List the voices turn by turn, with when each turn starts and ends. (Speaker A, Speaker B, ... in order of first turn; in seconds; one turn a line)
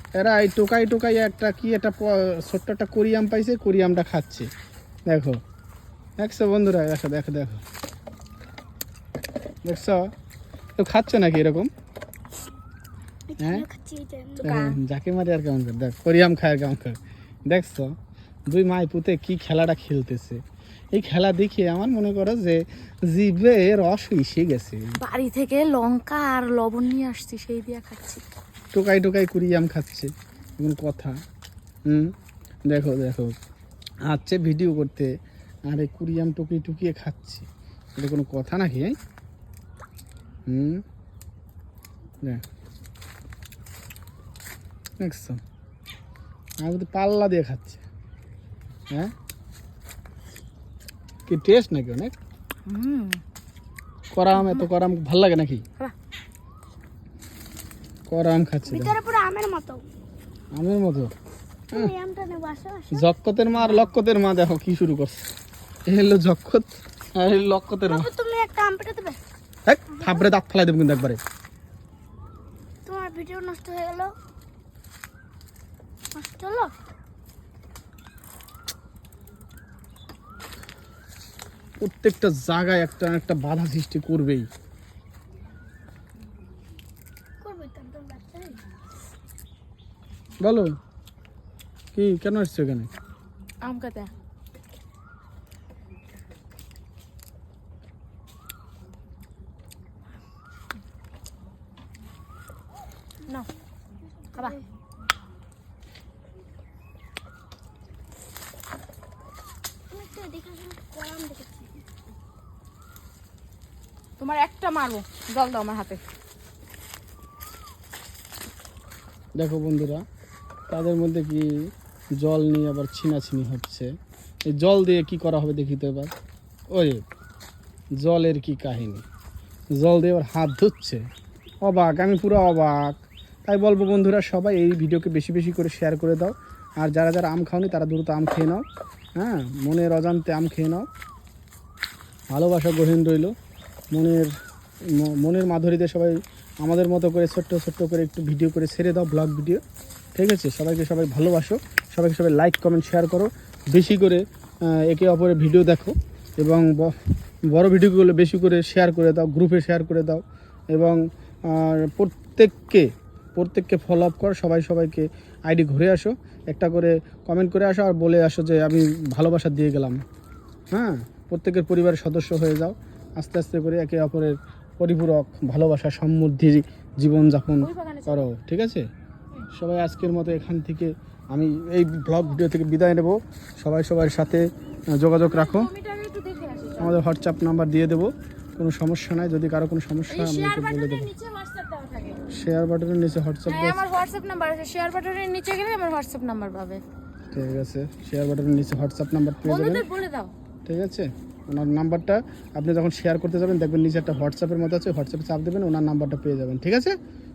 Speaker A: 0.2-4.5
Speaker A: 5.1-5.4
Speaker A: 6.2-7.6
Speaker A: 9.7-10.1
Speaker A: 10.8-11.7
Speaker B: 13.3-14.6
Speaker A: 13.4-13.7
Speaker C: 14.4-14.8
Speaker A: 14.4-17.9
Speaker A: 18.5-20.4
Speaker A: 20.9-24.8
Speaker C: 25.0-28.2
Speaker A: 28.7-31.1
Speaker A: 32.7-33.4
Speaker A: 34.1-35.1
Speaker A: 35.7-37.5
Speaker A: 38.0-39.0
Speaker A: 40.5-40.8
Speaker A: 45.0-45.4
Speaker A: 46.6-47.8
Speaker A: 51.3-52.2
Speaker C: 52.7-53.2
Speaker A: 54.1-55.6
Speaker C: 54.3-54.7
Speaker A: 58.1-58.9
Speaker B: 58.7-59.8
Speaker A: 60.5-61.1
Speaker B: 61.7-63.1
Speaker A: 62.9-65.3
Speaker C: 63.6-63.9
Speaker A: 65.9-68.1
Speaker B: 67.9-69.2
Speaker A: 69.7-71.2
Speaker B: 70.0-70.3
Speaker B: 72.8-74.1
Speaker B: 76.1-76.9
Speaker A: 81.8-84.5
Speaker B: 87.4-88.6
Speaker A: 90.4-90.7
Speaker A: 92.0-92.9
Speaker C: 93.6-94.1
Speaker C: 104.3-104.6
Speaker B: 109.9-111.8
Speaker C: 114.2-116.0
Speaker A: 119.4-120.0
Speaker A: 120.7-121.5
Speaker A: 122.2-123.9
Speaker A: 124.5-126.1
Speaker A: 126.7-127.0
Speaker A: 128.0-129.1
Speaker A: 129.8-131.0
Speaker A: 131.6-138.6
Speaker A: 139.2-140.9
Speaker A: 142.3-143.3
Speaker A: 143.9-144.3
Speaker A: 144.9-149.6
Speaker A: 150.2-157.0
Speaker A: 157.5-170.0
Speaker A: 170.7-178.8
Speaker C: 177.6-178.3
Speaker A: 179.5-184.4
Speaker A: 185.0-185.7
Speaker C: 185.2-187.0
Speaker A: 186.8-191.1
Speaker C: 190.1-192.2
Speaker A: 192.3-193.8
Speaker C: 193.5-196.8
Speaker A: 197.3-199.8
Speaker C: 199.4-200.3
Speaker A: 200.7-206.9